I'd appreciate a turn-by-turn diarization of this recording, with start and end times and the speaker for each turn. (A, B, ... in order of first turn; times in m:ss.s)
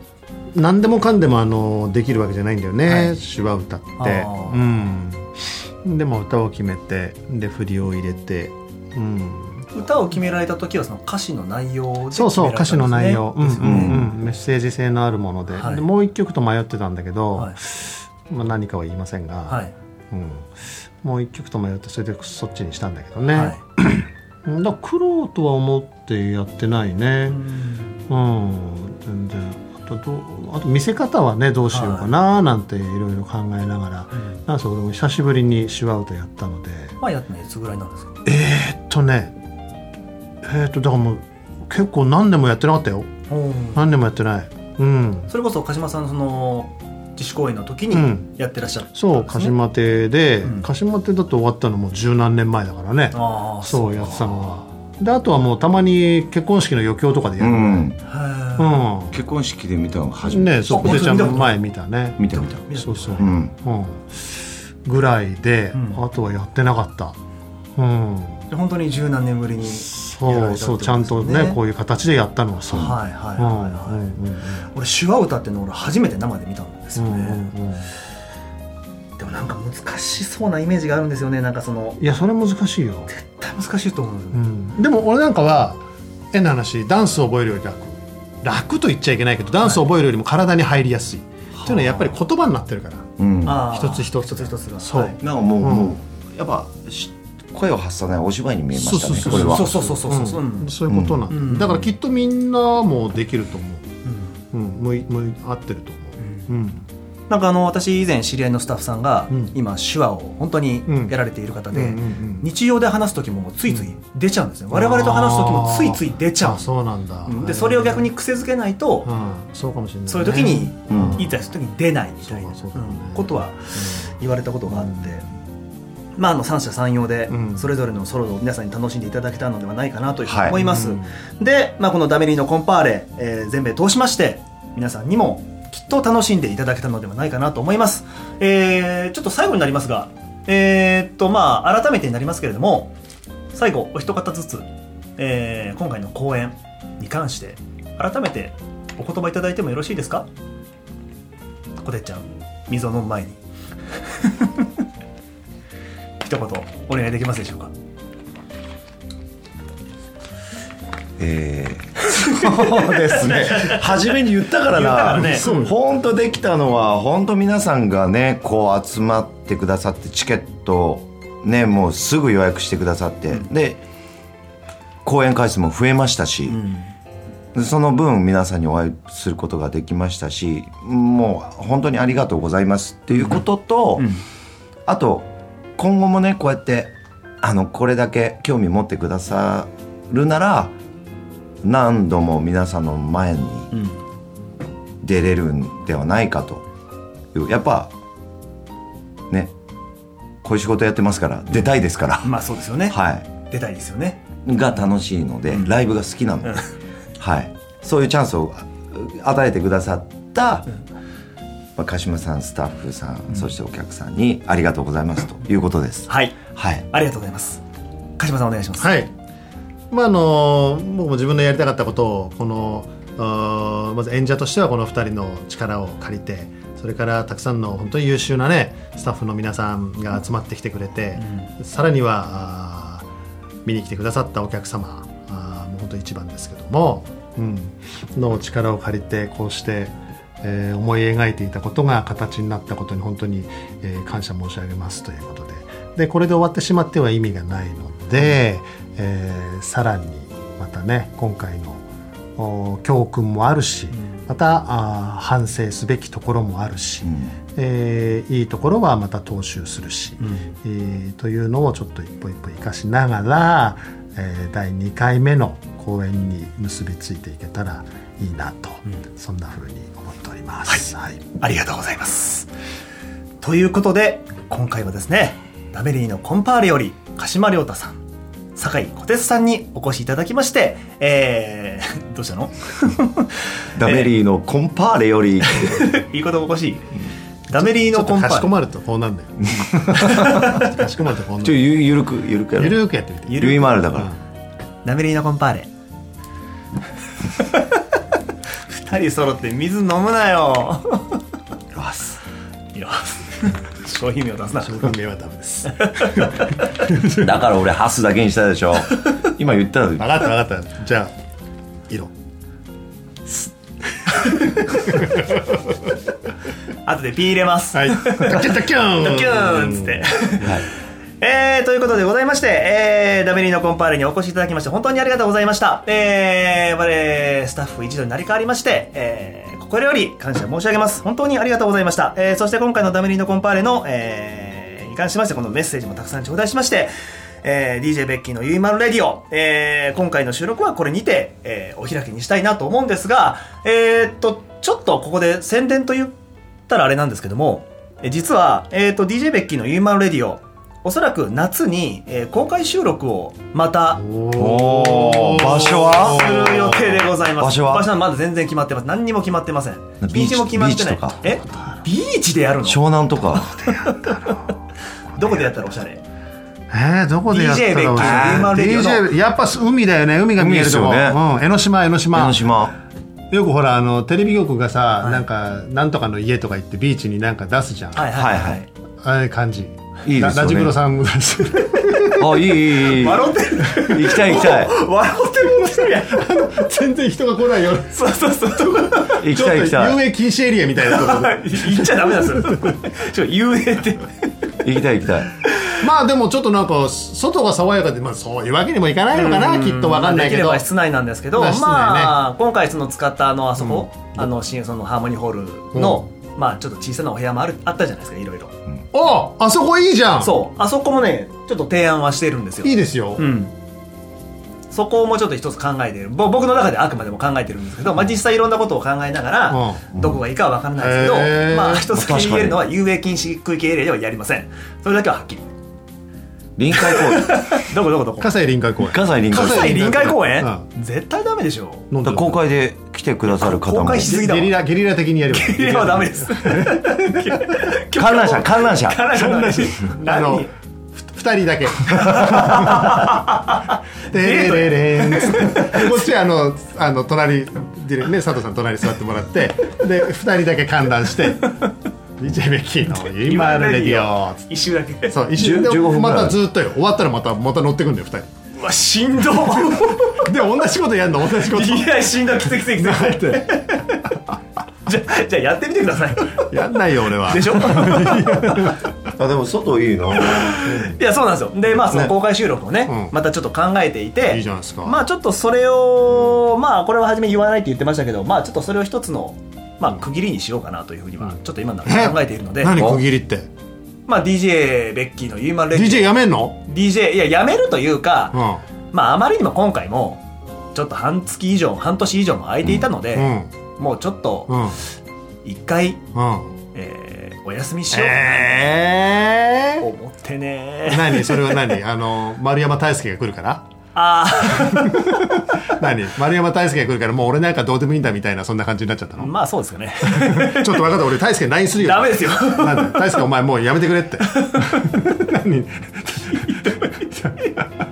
0:00.5-0:09.7 A
0:02.9-0:03.2 B
0:04.0-0:04.6 B
0:09.7-0:14.1 B
0:12.1-0:20.5 A
0:13.6-0:14.1 C
0:15.5-0:15.8 B
0:19.5-0:19.7 B
0:21.0-0:27.4 A
0:23.3-0:23.6 B
0:27.3-0:28.0 B
0:28.1-0:37.0 A
0:31.7-0:32.1 B
0:37.0-0:38.1 B
0:38.2-0:39.3 A
0:40.4-0:43.1 A
0:43.3-0:43.9 B
0:43.7-0:45.3 A
0:45.3-0:49.5 B
0:47.9-0:48.3 A
0:48.9-0:57.9 A
0:50.4-0:50.7 B
0:53.1-0:54.5 B
0:57.4-0:58.0 C
0:58.0-0:58.8 B
0:58.6-0:59.2 A
0:59.1-1:01.3 C
1:00.2-1:04.2 A
1:00.7-1:01.6 B
1:02.2-1:02.7 C
1:02.4-1:03.4 B
1:03.2-1:03.5 C
1:04.8-1:07.2 A
1:05.7-1:06.0 B
1:07.8-1:08.5 A
1:08.5-1:11.6 B
1:09.7-1:14.7 A
1:12.7-1:13.0 C
1:12.7-1:14.1 B
1:14.7-1:17.5 B
1:17.0-1:17.9 A
1:19.2-1:22.0 B
1:22.0-1:23.1 A
1:23.1-1:24.4 B
1:24.3-1:25.8 A
1:26.3-1:36.0 A
1:29.6-1:29.9 B
1:31.5-1:32.2 B
1:33.2-1:33.7 C
1:33.4-1:35.2 B
1:35.2-1:39.8 C
1:38.7-1:43.8 A
1:39.2-1:40.7 B
1:40.9-1:41.3 C
1:41.3-1:41.9 B
1:44.0-1:44.4 B
1:44.5-1:46.8 A
1:46.2-1:46.5 B
1:47.3-1:56.6 B
1:50.9-1:51.1 A
1:51.7-1:52.5 A
1:54.7-1:58.1 A
1:57.2-1:59.1 B
1:59.0-2:01.4 A
2:00.1-2:05.2 B
2:00.9-2:01.2 C
2:02.2-2:04.1 A
2:04.7-2:05.1 A
2:06.2-2:22.9 B
2:07.3-2:07.6 A
2:10.2-2:10.6 C
2:10.5-2:11.1 A
2:23.5-2:30.2 B
2:31.8-2:33.4 B
2:34.2-2:34.7 B
2:36.2-2:37.7 B
2:41.2-2:53.8 C
2:42.1-2:44.2 B
2:44.7-2:45.6 B
2:45.2-2:45.7 A
2:55.0-2:56.6 C
2:56.5-2:56.9 B
2:57.5-3:04.1 C
3:03.2-3:03.4 B
3:04.0-3:04.2 B
3:04.9-3:10.7 C
3:11.6-3:13.7 C
3:13.7-3:14.0 B
3:15.0-3:16.6 C
3:17.3-3:17.9 C
3:20.4-3:22.3 C
3:22.2-3:24.2 B
3:22.9-3:23.2 C
3:24.4-3:26.6 C
3:25.5-3:25.8 B
3:26.4-3:26.7 B
3:27.2-3:30.7 C
3:31.8-3:36.8 C
3:36.1-3:36.4 B
3:36.9-3:37.6 B
3:38.2-3:39.0 B
3:38.8-3:39.1 A
3:39.9-3:53.0 A
3:51.2-3:51.5 B
3:53.6-4:11.8 A
4:12.4-4:31.2 A
4:17.0-4:17.3 C
4:20.2-4:20.5 B
4:31.4-4:32.5 B
4:33.4-4:38.0 B
4:38.6-4:44.1 B
4:43.8-4:46.0 C
4:45.5-4:46.9 B
4:47.5-4:48.5 B
4:47.5-4:51.6 A
4:49.6-4:50.6 C
4:49.9-4:50.7 B
4:51.4-4:52.8 C
4:52.6-4:54.2 A
4:53.3-4:53.9 B
4:53.4-4:54.1 C
4:54.8-4:55.7 B
4:57.4-4:57.7 B
4:58.6-5:01.2 B
5:01.8-5:02.2 C
5:02.7-5:04.9 B
5:04.6-5:07.5 A
5:05.8-5:06.8 B
5:07.2-5:10.0 C
5:10.0-5:11.1 A
5:14.2-5:14.8 B
5:14.3-5:15.6 A
5:16.8-5:20.6 B
5:17.7-5:20.0 A
5:21.2-5:36.9 B
5:37.4-5:46.1 B
5:46.7-5:54.1 B
5:53.9-5:57.0 A
5:54.4-5:56.2 C
5:55.8-6:02.8 B
5:57.4-5:57.9 C
6:00.0-6:01.2 C
6:02.6-6:03.5 C
6:03.3-6:04.6 A
6:03.4-6:04.5 B
6:05.1-6:05.6 A
6:05.2-6:06.0 B
6:06.7-6:12.4 A
6:07.3-6:09.1 B
6:07.9-6:08.6 C
6:10.4-6:11.2 C
6:12.1-6:12.7 C
6:13.3-6:18.1 A
6:17.9-6:18.7 B
6:18.1-6:18.6 C
6:19.0-6:22.8 A
6:20.0-6:20.8 C
6:22.1-6:24.7 C
6:22.8-6:26.5 B
6:25.4-6:28.0 A
6:27.9-6:29.2 B
6:28.7-6:32.7 A
6:29.2-6:30.0 C
6:30.9-6:34.3 B
6:34.6-6:35.3 C
6:35.7-6:40.6 A
6:39.1-6:48.5 B
6:41.3-6:42.2 A
6:43.6-6:44.3 A
6:45.7-6:46.0 A
6:48.9-6:50.3 A
6:50.2-6:53.5 B
6:52.6-6:53.2 A
6:54.7-7:05.5 B
6:59.5-7:00.0 A
7:00.8-7:01.9 A
7:01.9-7:02.6 C
7:06.6-7:07.7 C
7:06.8-7:08.3 B
7:08.2-7:10.6 A
7:08.8-7:10.0 C
7:09.3-7:11.9 B
7:11.9-7:12.4 A
7:12.0-7:14.2 C
7:13.3-7:14.6 B
7:14.0-7:17.6 A
7:15.3-7:20.5 B
7:17.9-7:19.0 C
7:19.1-7:23.1 A
7:22.0-7:26.0 B
7:24.1-7:34.5 A
7:32.9-7:35.2 B
7:35.1-7:38.3 A
7:35.4-7:36.4 C
7:38.6-7:40.3 B
7:40.1-7:43.7 A
7:41.4-7:44.1 B
7:44.8-7:46.5 B
7:46.4-7:48.9 A
7:47.2-7:48.7 B
7:49.2-7:50.6 C
7:50.1-8:02.8 B
7:50.6-7:51.0 A
7:52.9-7:53.1 A
7:54.3-7:55.0 A
8:01.8-8:03.5 A
8:02.7-8:03.0 C
8:04.1-8:14.6 B
8:05.7-8:06.6 A
8:08.3-8:08.6 A
8:13.1-8:13.5 A
8:14.5-8:14.8 A
8:15.4-8:16.0 B
8:16.1-8:16.5 A
8:16.7-8:18.8 B
8:17.9-8:19.8 A
8:19.8-8:21.8 B
8:20.9-8:23.6 A
8:23.9-8:25.4 B
8:24.5-8:29.3 A
8:29.2-8:31.0 B
8:30.0-8:37.7 A
8:31.8-8:33.1 B
8:34.3-8:34.9 B
8:36.3-8:37.1 B